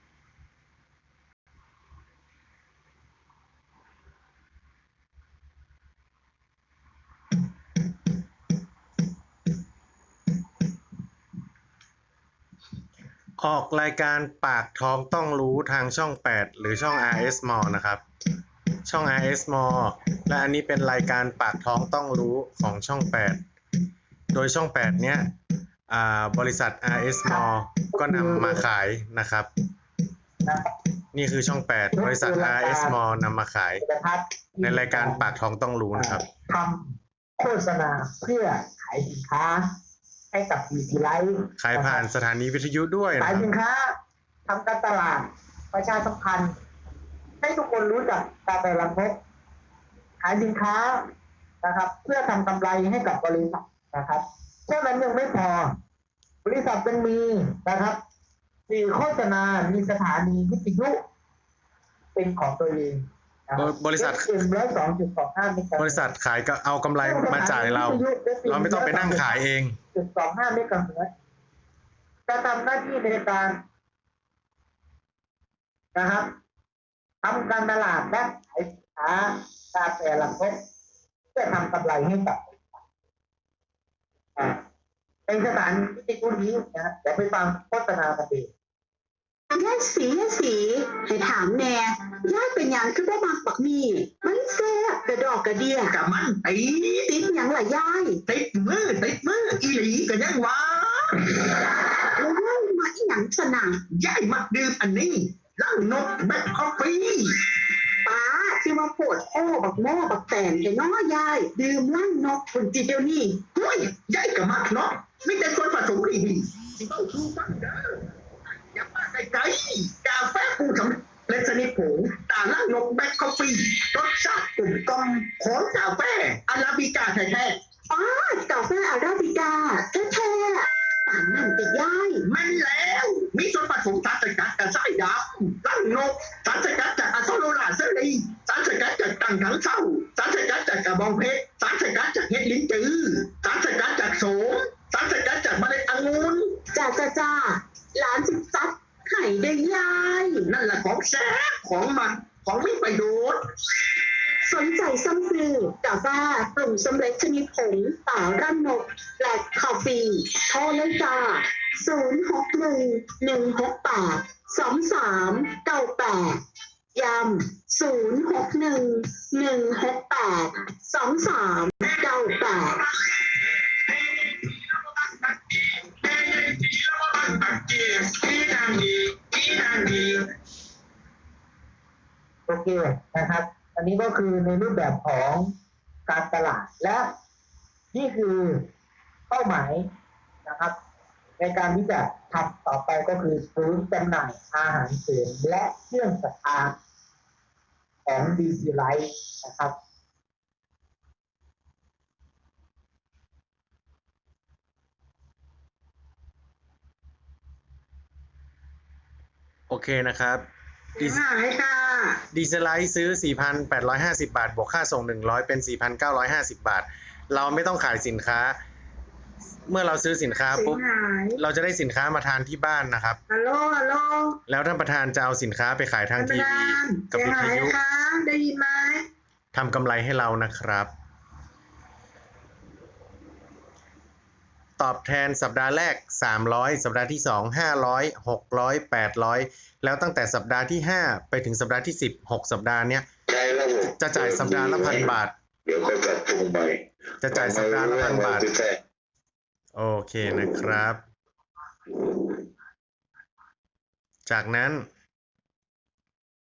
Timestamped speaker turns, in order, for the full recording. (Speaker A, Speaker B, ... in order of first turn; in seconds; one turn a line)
Speaker A: 13.4-18.0
Speaker A: 18.8-23.4
Speaker A: 24.3-25.3
Speaker A: 25.9-29.5
Speaker B: 28.0-28.6
Speaker A: 31.1-33.8
Speaker B: 31.9-33.0
Speaker B: 33.8-35.3
Speaker A: 34.6-36.2
Speaker B: 35.9-39.7
Speaker B: 40.3-42.0
Speaker A: 41.6-43.5
Speaker B: 43.2-43.9
Speaker B: 44.5-46.5
Speaker B: 47.4-49.2
Speaker B: 50.2-51.0
Speaker B: 51.6-55.8
Speaker B: 56.4-58.0
Speaker B: 58.7-61.0
Speaker B: 62.1-66.1
Speaker A: 63.6-64.4
Speaker A: 65.8-69.8
Speaker B: 67.0-69.4
Speaker B: 69.9-71.1
Speaker B: 72.3-73.6
Speaker B: 75.9-76.3
Speaker B: 77.2-80.5
Speaker B: 81.3-82.8
Speaker B: 85.3-88.5
Speaker C: 89.5-95.9
Speaker D: 95.8-97.1
Speaker C: 97.1-98.2
Speaker D: 98.3-101.5
Speaker C: 102.1-103.8
Speaker D: 103.9-107.3
Speaker C: 108.0-113.5
Speaker D: 113.5-118.0
Speaker D: 118.7-127.6
Speaker C: 127.9-132.2
Speaker D: 132.2-146.6
Speaker C: 146.7-150.5
Speaker D: 150.4-153.4
Speaker C: 154.4-166.4
Speaker C: 166.9-172.9
Speaker C: 177.7-180.0
Speaker B: 182.5-185.5
Speaker B: 186.1-187.1
Speaker B: 187.9-188.7
Speaker B: 189.3-189.9
Speaker B: 190.4-190.8
Speaker B: 191.4-196.7
Speaker B: 198.0-199.7
Speaker A: 209.7-210.4
Speaker A: 211.0-211.2
Speaker C: 211.1-212.2
Speaker A: 212.3-218.6
Speaker A: 219.7-220.8
Speaker C: 220.6-221.4
Speaker A: 221.3-223.2
Speaker C: 223.3-224.4
Speaker A: 224.5-227.8
Speaker C: 226.2-229.0
Speaker A: 229.5-230.9
Speaker A: 234.8-243.1
Speaker E: 243.3-248.8
Speaker A: 243.8-245.3
Speaker A: 247.2-248.5
Speaker A: 249.7-251.0
Speaker A: 254.2-254.9